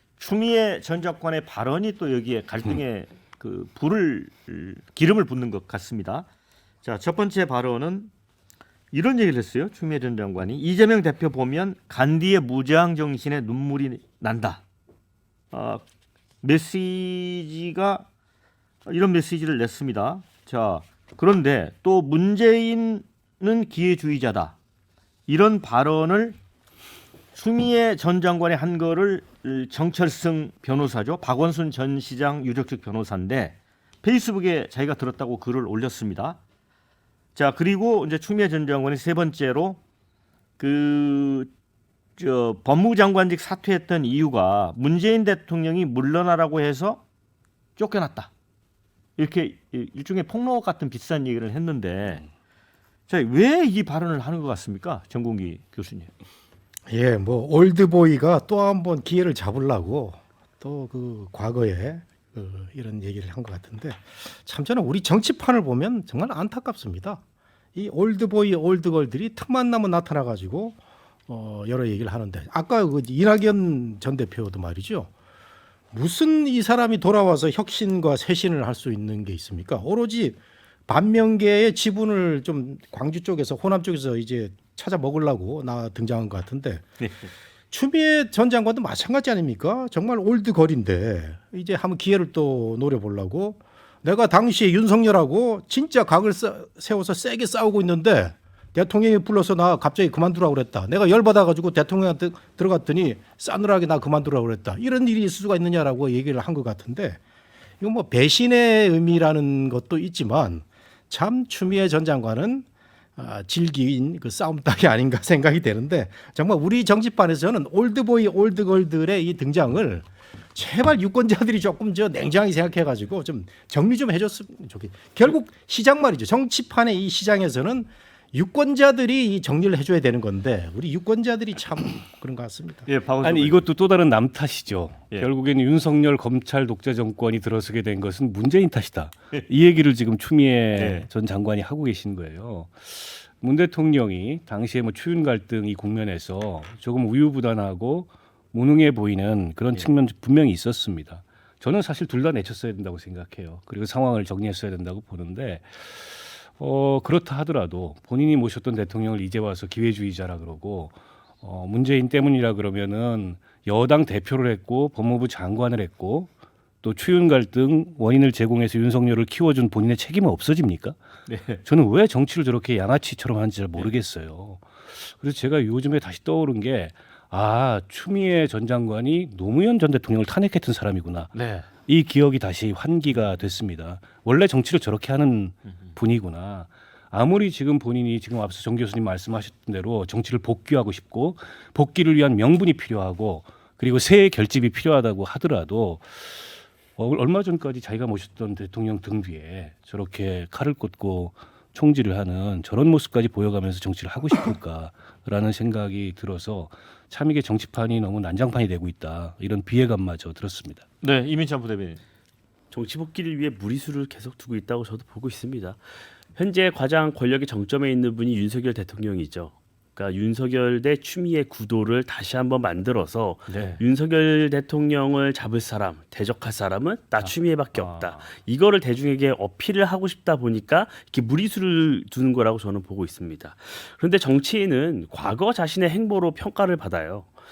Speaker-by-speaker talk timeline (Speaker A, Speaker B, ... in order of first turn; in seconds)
Speaker A: 0.2-6.3, 6.8-8.1, 8.9-14.6, 15.5-15.8, 16.4-18.1, 18.9-24.6, 25.3-26.4, 27.3-36.4, 37.4-39.8, 40.6-41.5, 42.2-47.0, 47.8-48.3, 49.2-52.3, 53.1-56.1, 87.0-87.3, 132.9-133.7, 140.7-141.1, 171.3-171.6, 181.3-181.7, 211.0-212.0, 223.5-223.8, 227.2-228.3
Speaker B: 56.9-67.2, 67.8-75.1, 75.9-86.9, 87.7-107.2, 107.8-132.9
Speaker C: 133.2-166.3, 166.8-171.0, 171.6-210.8
Speaker D: 212.7-215.8, 216.3-237.3